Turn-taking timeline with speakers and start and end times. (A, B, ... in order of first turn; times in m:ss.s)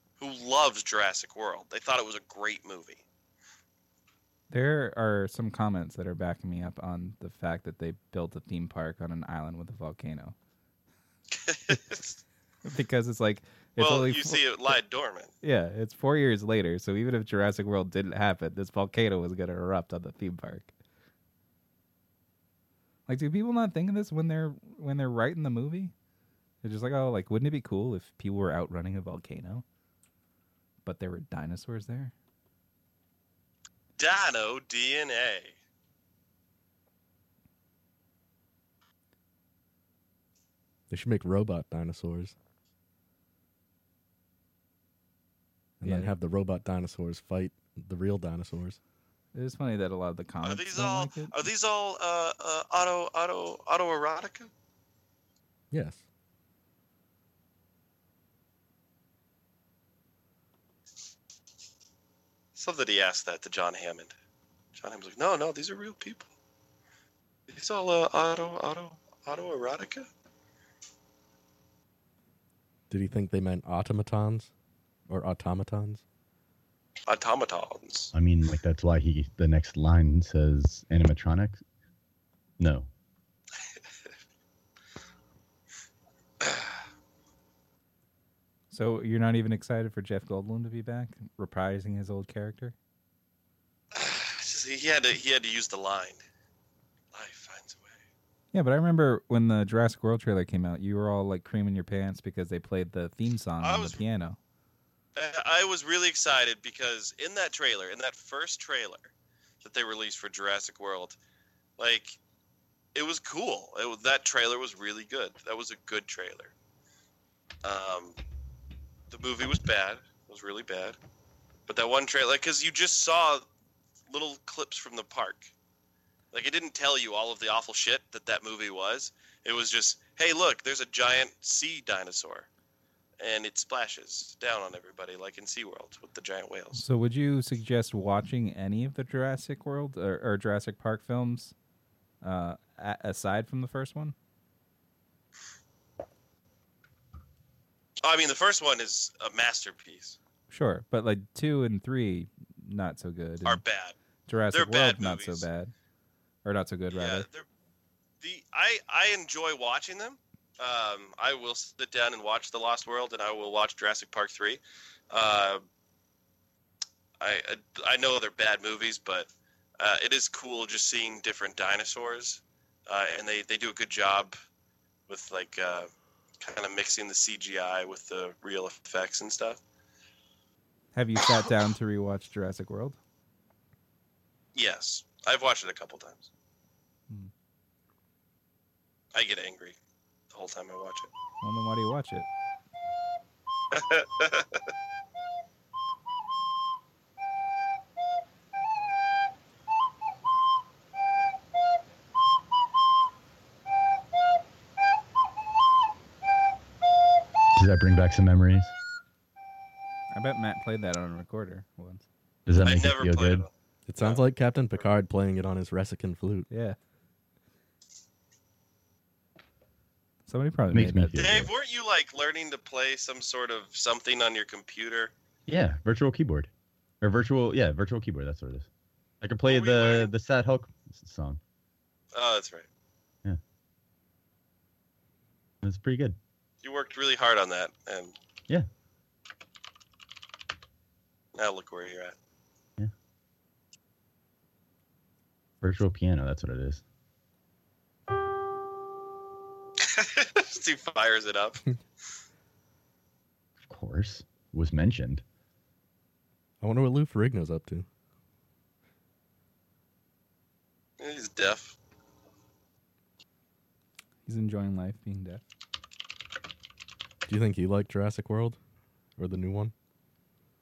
0:00.2-0:03.0 A
0:04.5-0:10.4 B
0:11.3-0:12.2 A
0:12.6-0:14.8 B
0:13.8-0:15.3 A
0:15.4-0:20.7 B
0:23.1-0:25.9 B
0:26.6-0:29.6 B
0:30.8-0:32.1 B
0:34.0-0:35.6 A
0:40.9-0:42.4 C
0:45.8-0:46.1 B
0:45.8-0:48.8 C
0:49.3-0:51.4 B
0:50.4-0:54.5 A
0:55.7-0:56.0 C
1:02.6-1:04.1 A
1:04.8-1:06.3 A
1:07.5-1:10.1 A
1:12.9-1:14.5 C
1:15.1-1:16.0 C
1:17.1-1:18.1 A
1:18.1-1:21.6 D
1:22.6-1:22.9 D
1:26.4-1:26.7 A
1:28.7-1:32.8 B
1:33.9-1:36.2 A
1:37.1-1:38.0 A
1:38.5-1:44.4 B
1:43.6-1:44.0 A
1:45.2-1:49.1 A
1:49.6-1:51.2 A
1:51.8-1:52.2 A
1:53.0-1:56.5 A
1:57.6-1:58.2 A
1:59.1-2:01.0 A
2:01.7-2:03.4 A
2:04.1-2:05.5 A
2:06.3-2:12.5 A
2:13.2-2:16.8 A
2:16.7-2:21.5 B
2:22.2-2:24.2 B
2:28.0-2:30.2 A
2:30.5-2:33.6 B
2:33.4-2:34.0 A
2:34.3-2:35.7 B
2:34.5-2:35.5 A
2:36.4-2:37.3 B
2:36.9-2:37.5 A
2:38.2-2:45.6 A
2:47.2-2:54.4 A
2:55.1-2:55.9 A
2:56.4-2:59.6 A
3:01.0-3:03.0 B
3:04.5-3:06.3 A
3:09.1-3:09.8 A
3:10.3-3:11.1 A
3:11.4-3:12.3 B
3:13.7-3:14.7 A
3:27.6-3:28.7 D
3:30.1-3:32.1 B
3:32.5-3:33.5 D
3:32.6-3:34.2 A
3:33.9-3:36.5 C
3:36.5-3:36.8 B
3:40.3-3:41.3 B
3:40.7-3:41.5 D
3:41.2-3:45.1 A
3:45.5-3:46.5 D
3:47.0-3:48.7 D
3:49.2-3:51.4 D
3:49.5-3:50.1 A
3:52.1-3:52.7 A
3:55.6-3:56.2 D
3:56.6-3:58.2 A
4:01.4-4:02.2 A
4:05.6-4:06.8 D
4:09.8-4:11.6 A
4:13.7-4:15.2 D
4:16.6-4:17.9 C
4:21.0-4:21.8 A
4:24.3-4:25.4 B
4:27.3-4:28.6 C
4:29.2-4:29.7 C